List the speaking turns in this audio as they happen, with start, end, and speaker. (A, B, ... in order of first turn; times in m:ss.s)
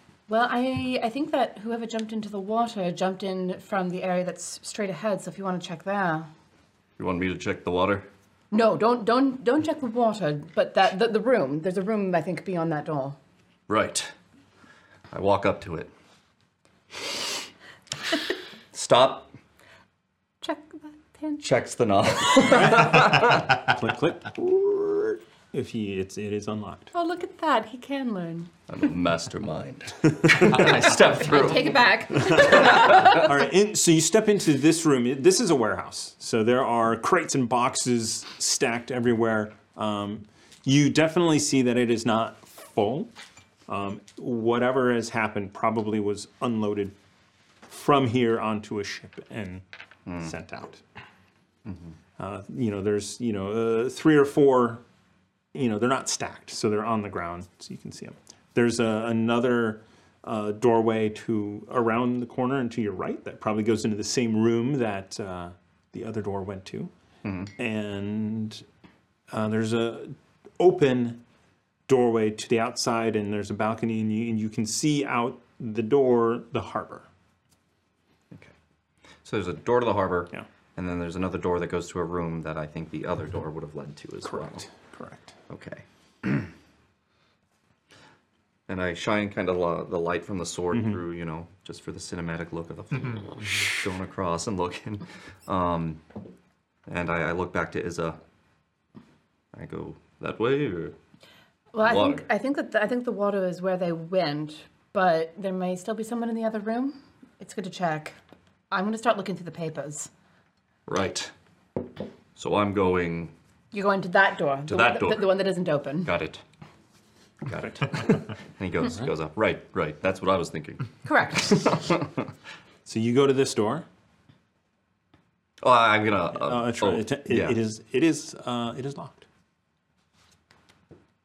0:00.3-0:06.3 A
0:07.0-0:08.1 B
0:08.5-0:13.2 A
0:13.7-0:14.1 B
0:15.1-0:15.9 B
0:18.7-0:19.3 B
0:20.4-0:21.4 A
0:21.4-0:23.6 B
0:22.5-0:26.9 C
0:26.9-0:28.5 A
0:28.7-0:33.2 B
0:30.9-0:33.2 A
0:32.5-0:43.1 C
0:43.7-0:46.9 C
0:47.7-0:49.6 C
0:50.2-0:50.8 C
0:51.6-0:51.9 B
0:52.2-0:54.8 C
0:55.5-1:06.9 C
1:07.2-1:07.5 B
1:07.6-1:08.6 C
1:09.3-1:11.2 C
1:11.9-1:17.1 C
1:19.2-1:24.6 B
1:24.2-1:25.3 C
1:25.5-1:26.5 B
1:28.7-1:36.0 B
1:30.7-1:31.0 C
1:36.9-1:38.2 B
1:39.5-1:41.0 B
1:41.7-1:48.1 A
1:41.8-1:42.2 B
1:48.7-1:50.1 A
1:50.9-1:51.3 B
1:52.4-1:53.3 B
1:53.7-1:56.1 A
1:54.7-1:55.5 B
1:56.0-1:56.4 B
1:57.4-2:00.9 B
2:01.0-2:01.8 A
2:01.4-2:02.1 B
2:02.9-2:03.9 C
2:05.6-2:07.6 B
2:06.4-2:09.2 C